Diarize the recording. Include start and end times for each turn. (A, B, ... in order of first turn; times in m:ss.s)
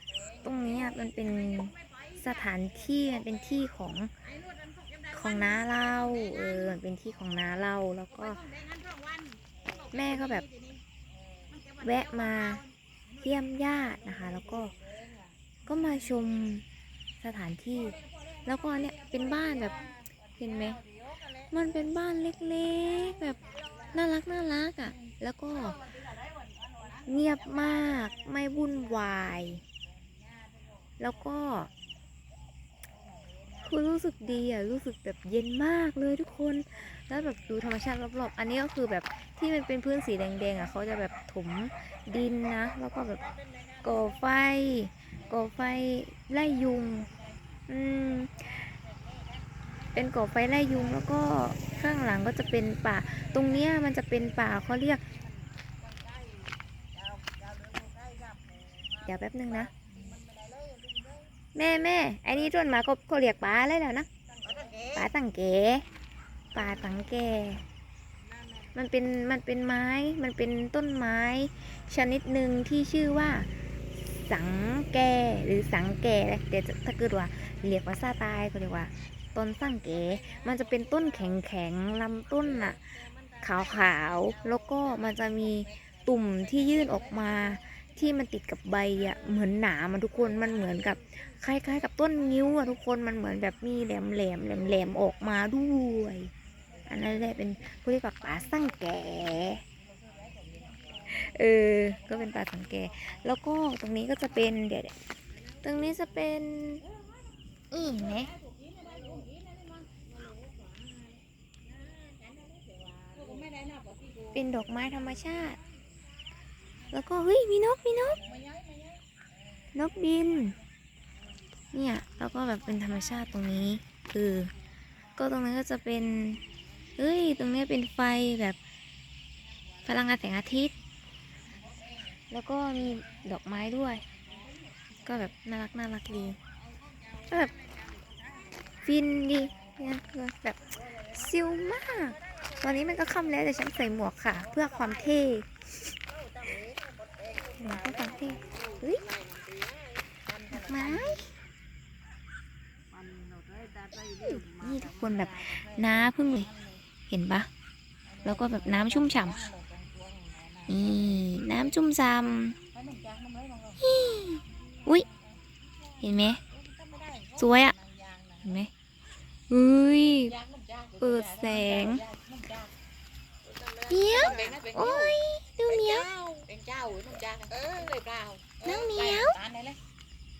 0:00.4-0:02.6 A
0:00.4-0:04.1 B
0:04.2-0:06.8 A
0:05.1-0:08.4 B
0:08.1-0:10.8 A
0:09.9-0:10.4 B
0:11.5-0:12.7 A
0:11.8-0:12.6 B
0:13.2-0:14.7 B
0:15.7-0:16.6 B
0:17.2-0:18.0 B
0:17.9-0:20.0 A
0:18.5-0:19.8 B
0:20.4-0:20.8 B
0:20.7-0:21.6 A
0:21.5-0:23.4 B
0:22.6-0:24.0 A
0:23.9-0:25.8 B
0:25.6-0:28.1 A
0:27.1-0:29.6 B
0:31.0-0:31.7 B
0:33.7-0:43.3 B
0:43.8-0:47.1 B
0:47.7-0:48.7 B
0:50.0-0:55.0 B
0:57.1-0:59.2 A
0:59.1-0:59.7 B
0:59.7-1:01.1 A
1:01.6-1:04.1 B
1:04.4-1:05.1 A
1:04.9-1:05.8 B
1:06.5-1:07.6 B
1:08.7-1:13.5 B
1:14.3-1:22.8 B
1:23.4-1:36.3 B
1:26.7-1:27.0 A
1:36.8-1:37.4 A
1:36.9-1:39.6 B
1:40.0-1:41.3 A
1:41.1-1:44.9 B
1:45.6-1:46.8 B
1:47.7-1:48.3 B
1:47.8-1:51.1 A
1:52.1-1:54.5 A
1:54.3-1:55.6 B
1:56.9-1:58.2 B
1:58.1-1:59.0 A
1:59.8-2:00.6 B
2:01.7-2:04.5 B
2:05.2-2:06.4 B
2:07.0-2:08.6 B
2:09.8-2:10.7 B
2:12.3-2:14.0 B
2:14.3-2:14.6 A
2:15.1-2:16.4 B
2:17.3-2:17.5 B
2:18.8-2:25.5 B
2:27.5-2:29.6 A
2:27.6-2:29.1 B
2:30.3-2:31.2 A
2:30.5-2:31.3 B
2:32.9-2:36.8 A
2:34.2-2:36.5 B
2:37.1-2:37.5 B
2:38.2-2:41.6 A
2:38.2-2:39.4 B
2:40.7-2:42.6 B
2:42.7-2:43.8 A
2:43.8-2:45.1 B
2:46.0-2:46.4 B
2:46.5-2:48.6 A
2:47.4-2:47.7 B
2:48.4-2:48.7 B
2:49.5-2:50.3 B
2:50.2-2:52.7 A
2:51.0-2:52.0 B
2:53.9-2:56.1 B
2:53.9-2:59.8 A
2:58.6-2:59.4 B